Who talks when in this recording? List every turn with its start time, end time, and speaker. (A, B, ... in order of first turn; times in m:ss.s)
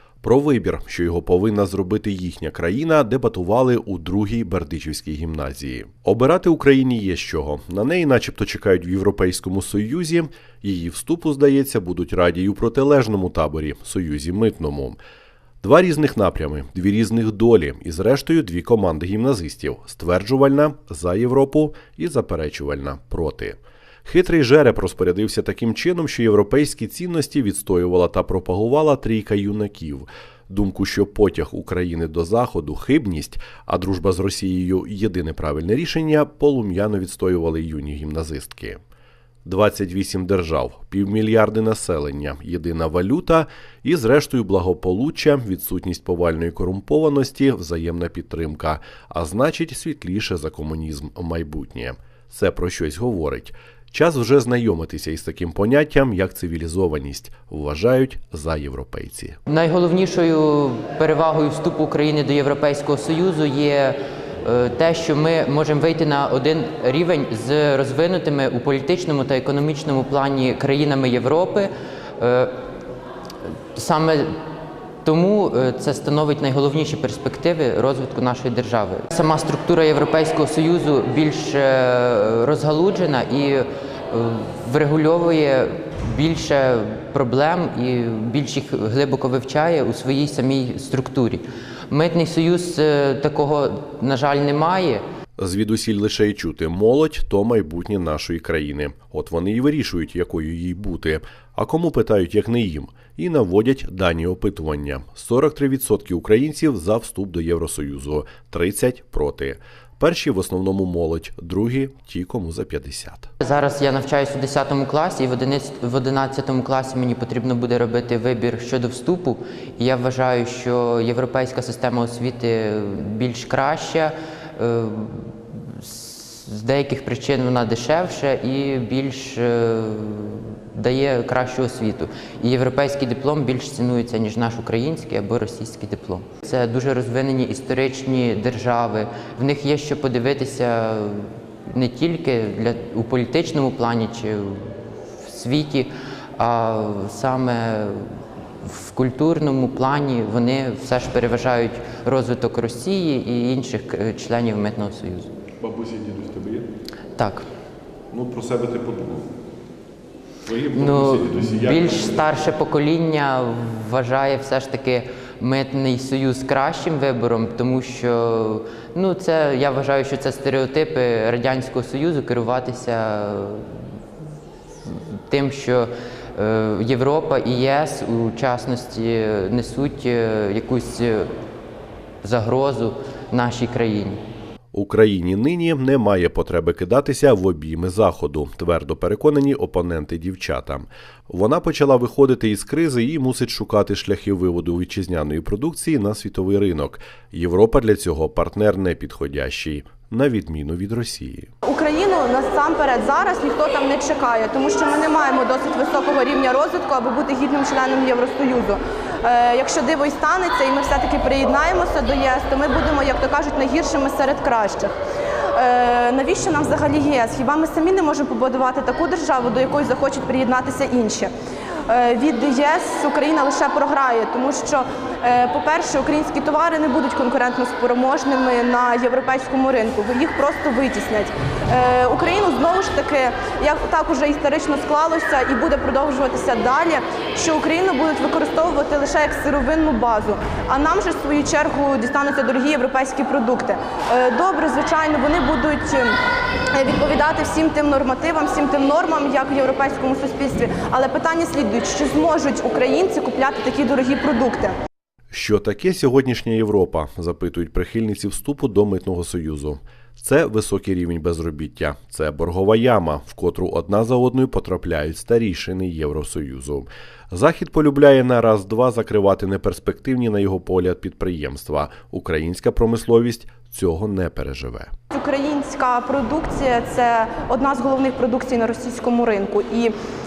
0:00.2-0:15.0 A
0:15.6-0:38.8 A
0:39.4-0:59.4 A
0:59.5-1:12.5 B
1:13.8-1:14.3 B
1:15.0-1:35.0 B
1:35.4-1:53.3 A
1:53.4-2:35.3 B
2:35.6-2:36.7 A
2:37.2-2:37.5 B
2:38.1-2:39.2 A
2:40.4-2:42.3 A
2:40.7-2:53.8 B
2:54.8-3:01.3 B
3:02.2-3:04.2 B
3:04.7-3:21.5 A
3:21.6-3:34.9 C
3:35.5-3:41.3 C
3:41.9-4:06.2 C
4:06.7-4:14.7 C
4:15.3-4:34.9 A
4:35.1-4:39.9 C